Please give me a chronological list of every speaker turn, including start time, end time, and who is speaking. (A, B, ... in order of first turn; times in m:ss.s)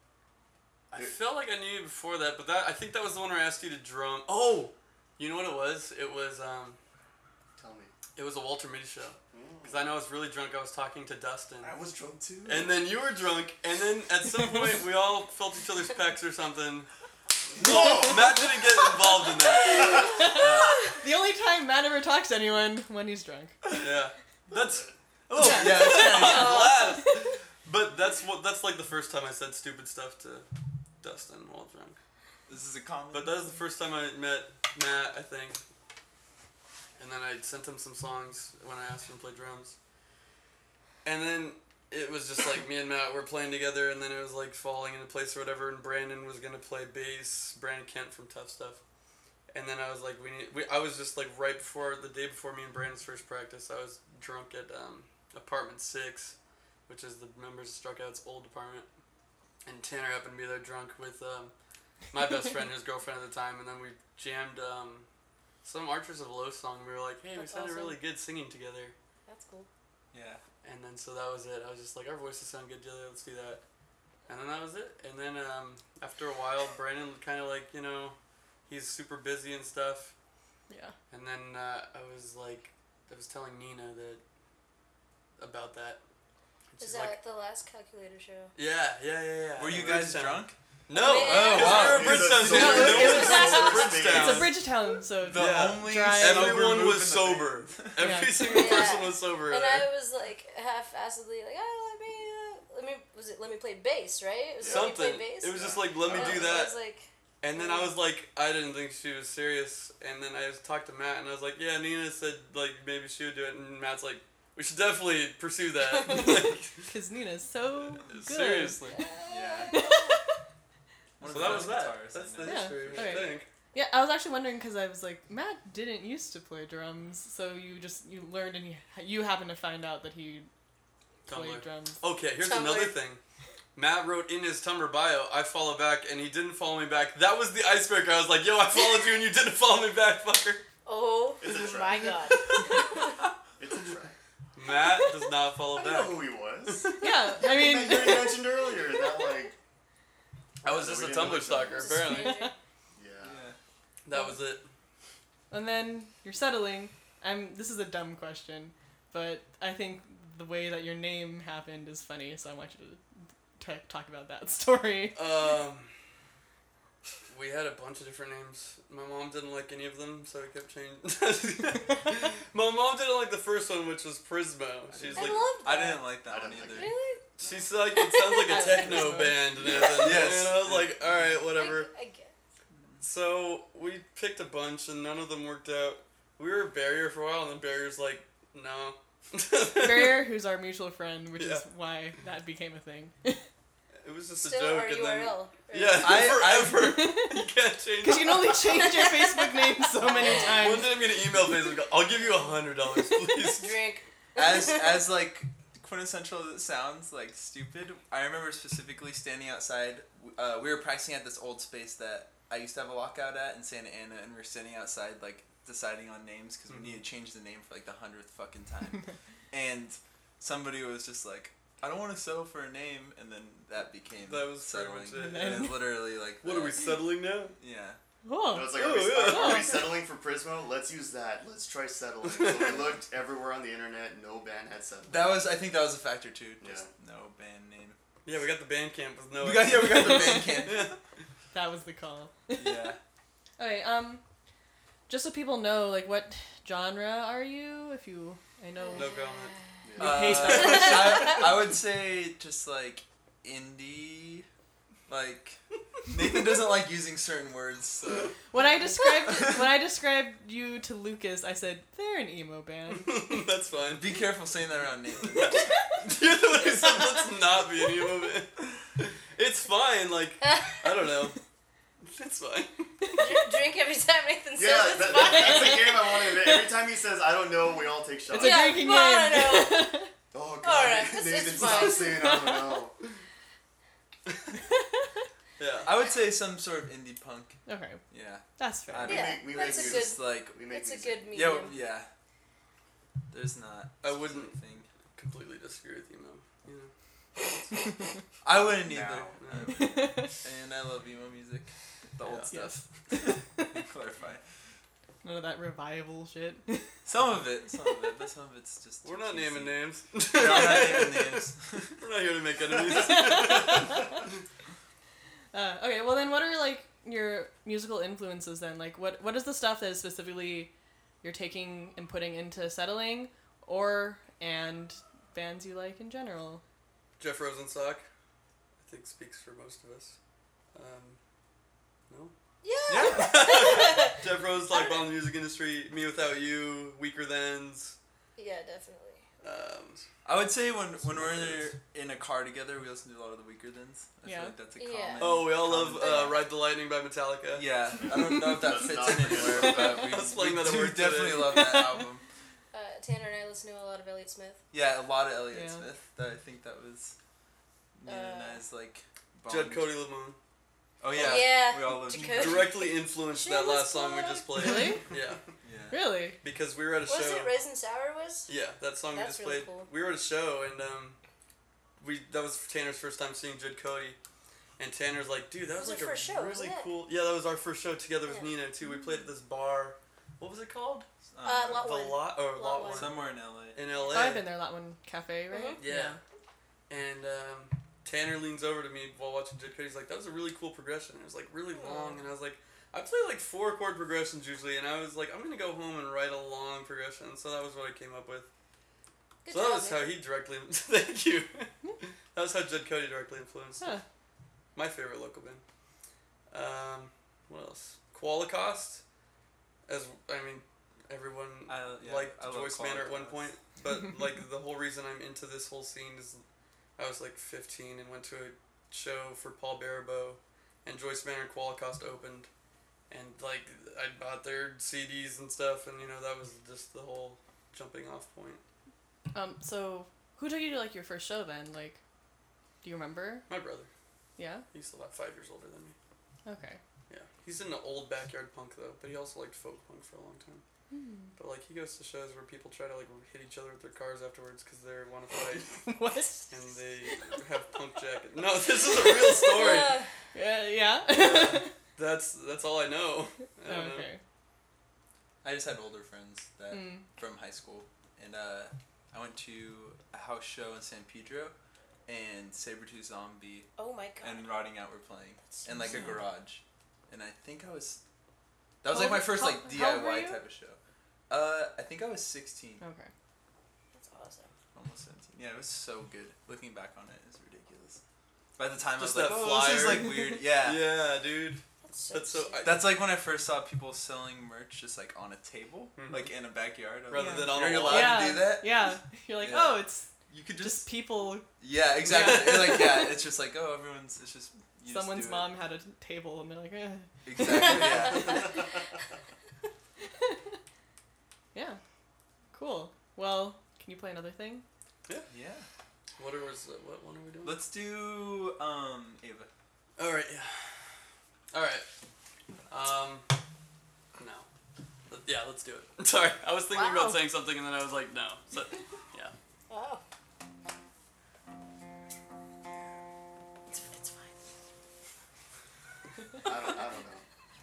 0:00.9-0:06.8 A
0:07.6-0:07.9 B
0:08.1-0:11.8 A
0:09.3-0:09.9 B
0:11.6-0:12.8 B
0:12.4-0:16.9 A
0:17.6-0:18.7 B
0:17.6-0:20.8 A
0:19.7-0:20.1 B
0:19.8-0:23.6 C
0:19.8-0:20.4 D
0:23.8-0:30.5 A
0:25.3-0:26.8 E
0:25.4-0:26.5 C
0:26.0-0:27.0 D
0:31.0-0:32.0 A
0:32.5-0:33.4 E
0:33.1-0:35.6 A
0:37.0-0:39.8 A
0:41.0-0:48.8 A
0:49.5-0:56.4 A
0:56.9-0:58.9 A
0:59.6-1:01.5 A
1:02.1-1:05.1 A
1:05.6-1:09.0 A
1:07.4-1:08.0 D
1:09.3-1:09.7 D
1:10.1-1:10.4 E
1:10.6-1:13.6 A
1:14.3-1:18.2 A
1:18.7-1:20.1 A
1:21.1-1:24.2 A
1:25.4-1:26.0 A
1:26.7-1:27.2 A
1:26.8-1:28.5 D
1:28.6-1:34.6 A
1:29.6-1:30.6 E
1:30.9-1:34.1 D
1:31.2-1:32.6 E
1:31.5-1:34.6 B
1:34.1-1:36.8 C
1:35.2-1:38.1 E
1:35.3-1:39.9 A
1:38.0-1:38.9 C
1:38.4-1:47.9 D
1:44.6-1:46.7 B
1:44.6-1:46.7 A
1:47.4-1:56.9 A
1:56.9-1:58.8 C
1:58.1-1:59.0 A
1:58.9-2:00.2 D
1:59.3-1:59.8 E
1:59.7-2:00.2 C
2:01.2-2:03.4 E
2:01.2-2:03.5 A
2:02.4-2:10.5 C
2:11.3-2:12.0 C
2:11.3-2:13.2 A
2:12.4-2:13.0 D
2:13.8-2:20.6 A
2:20.9-2:23.1 D
2:21.4-2:23.1 B
2:23.6-2:24.2 B
2:24.6-2:27.1 A
2:25.8-2:29.5 B
2:27.0-2:28.5 C
2:30.6-2:32.5 A
2:30.6-2:31.9 B
2:31.4-2:32.5 D
2:32.0-2:32.5 C
2:33.0-2:33.5 B
2:33.2-2:33.6 E
2:34.0-2:34.6 A
2:34.1-2:34.4 C
2:35.5-2:43.0 C
2:43.6-2:45.3 C
2:45.1-2:45.9 A
2:47.3-2:55.5 A
2:54.9-2:56.9 E
2:55.1-2:57.3 D
2:56.2-2:57.7 B
2:57.4-3:01.9 A
2:58.0-2:59.3 D
2:58.5-2:59.6 C
2:59.7-2:59.9 B
2:59.8-3:01.3 E
3:01.5-3:02.3 D
3:02.7-3:03.0 E
3:03.0-3:10.2 A
3:09.8-3:13.4 C
3:11.4-3:11.6 A
3:14.0-3:18.8 A
3:14.4-3:16.2 D
3:16.0-3:17.0 E
3:16.8-3:17.4 C
3:18.0-3:21.0 C
3:18.7-3:20.8 D
3:20.2-3:23.8 A
3:23.5-3:25.0 D
3:24.4-3:47.0 E
3:36.7-3:37.0 A
3:44.2-3:45.8 A
3:45.1-3:45.9 C
3:46.4-3:47.6 A
3:47.6-3:48.0 E
3:48.2-3:49.9 C
3:48.5-3:55.5 B
3:48.7-3:49.9 A
3:52.2-3:53.0 A
3:55.1-3:58.0 E
3:56.6-3:56.9 B
3:58.2-4:01.0 A
3:59.4-4:01.0 E
4:01.5-4:02.9 C
4:02.6-4:03.0 E
4:03.6-4:04.2 C
4:05.1-4:09.1 C
4:08.8-4:09.8 D
4:09.0-4:09.6 A
4:09.8-4:10.7 B
4:10.0-4:14.5 E
4:10.0-4:11.4 C
4:10.6-4:11.1 D
4:15.1-4:18.3 E
4:18.5-4:23.3 C
4:22.9-4:24.1 A
4:23.9-4:25.8 E
4:25.3-4:31.4 A
4:30.4-4:30.9 D
4:32.1-4:33.2 A
4:33.1-4:36.0 D
4:34.6-4:39.0 B
4:35.2-4:36.7 C
4:38.3-4:40.1 C
4:38.3-4:39.9 D
4:40.3-4:43.0 B
4:40.6-4:42.3 D
4:41.6-4:42.8 C
4:44.7-4:45.1 C
4:45.6-4:45.9 A
4:45.8-4:50.6 E
4:47.7-4:48.0 C
4:48.6-4:49.2 C
4:49.0-4:51.3 B
4:49.1-4:51.8 D
4:51.3-4:52.1 E
4:53.3-4:54.9 E
4:54.0-4:54.6 A
4:55.1-4:56.9 A
4:58.4-5:04.4 E
4:58.9-4:59.8 A
4:59.7-5:00.4 C
5:02.2-5:02.5 A
5:02.5-5:03.8 C
5:05.2-5:06.9 C
5:07.0-5:09.8 E
5:09.0-5:14.3 A
5:10.3-5:12.0 E
5:13.0-5:14.1 C
5:15.5-5:20.7 C
5:21.2-5:26.6 C
5:27.2-5:28.1 A
5:28.8-5:30.2 A
5:30.7-5:31.2 A
5:32.1-5:32.3 A
5:32.6-5:35.1 D
5:32.9-5:33.4 E
5:33.0-5:38.0 A
5:38.4-5:39.2 D
5:39.4-5:40.1 A
5:40.2-5:46.3 E
5:41.2-5:41.6 B
5:44.2-5:44.6 C
5:44.8-5:46.4 D
5:45.2-5:47.7 A
5:47.5-5:52.2 E
5:48.0-5:50.1 B
5:49.4-5:51.8 A
5:52.7-5:54.6 D
5:54.7-5:57.2 E
5:55.5-5:55.9 C
5:58.0-6:00.0 E
5:58.1-5:58.6 D
5:59.5-6:00.4 A
6:01.0-6:02.8 E
6:01.1-6:04.5 D
6:01.2-6:01.5 A
6:02.1-6:05.4 A
6:04.6-6:05.0 C
6:05.6-6:06.0 E
6:05.9-6:06.4 C
6:06.4-6:07.5 A
6:07.1-6:08.5 D
6:08.5-6:11.2 A
6:09.1-6:09.9 D
6:12.0-6:14.2 A
6:14.8-6:21.1 A
6:15.7-6:16.9 D
6:21.3-6:21.9 E
6:21.4-6:23.2 D
6:21.8-6:24.5 A
6:22.8-6:23.8 E
6:24.1-6:26.2 C
6:25.5-6:25.8 D
6:25.8-6:26.2 A
6:26.9-6:38.5 A
6:31.7-6:32.2 D
6:39.4-6:40.2 D
6:39.5-6:44.0 A
6:44.8-6:45.6 A
6:46.5-6:49.0 A
6:49.9-6:56.4 A
6:51.7-6:53.6 E
6:57.0-7:02.5 A
7:03.1-7:08.6 A
7:09.3-7:12.0 C
7:12.8-7:13.5 C
7:13.5-7:13.9 A
7:14.4-7:14.6 C
7:14.7-7:16.0 A
7:16.5-7:16.8 C
7:17.1-7:20.6 A
7:20.9-7:21.4 C
7:21.4-7:25.8 A
7:25.7-7:27.2 C
7:26.5-7:30.0 A
7:29.4-7:30.1 D
7:30.3-7:31.7 C
7:31.1-7:34.1 A
7:33.6-7:34.2 C
7:35.4-7:41.5 E
7:36.7-7:37.0 C
7:42.0-7:43.7 E
7:43.8-7:44.6 D
7:44.2-7:48.0 E
7:45.4-7:46.1 D
7:45.8-7:46.2 C
7:48.8-7:52.8 E
7:48.9-7:50.4 C
7:52.8-7:53.1 C
7:53.9-7:54.5 D
7:54.7-7:58.0 E
7:58.6-8:00.9 E
7:59.0-8:02.8 A
8:01.8-8:02.8 D
8:02.6-8:11.0 E
8:06.0-8:06.3 A
8:07.0-8:08.4 A
8:07.1-8:11.5 C
8:11.5-8:15.5 E
8:12.0-8:13.1 C
8:12.2-8:12.7 A
8:14.9-8:18.2 C
8:17.2-8:18.5 E
8:21.5-8:21.8 C
8:22.5-8:24.6 C
8:25.3-8:25.7 E
8:26.2-8:27.6 A
8:27.4-8:29.5 E
8:30.0-8:30.6 A
8:31.5-8:31.9 A
8:32.7-8:33.3 A
8:34.2-8:34.5 A
8:35.1-8:39.4 A
8:36.7-8:37.2 D
8:39.7-8:40.0 D
8:43.7-8:44.3 D
8:46.4-8:47.2 B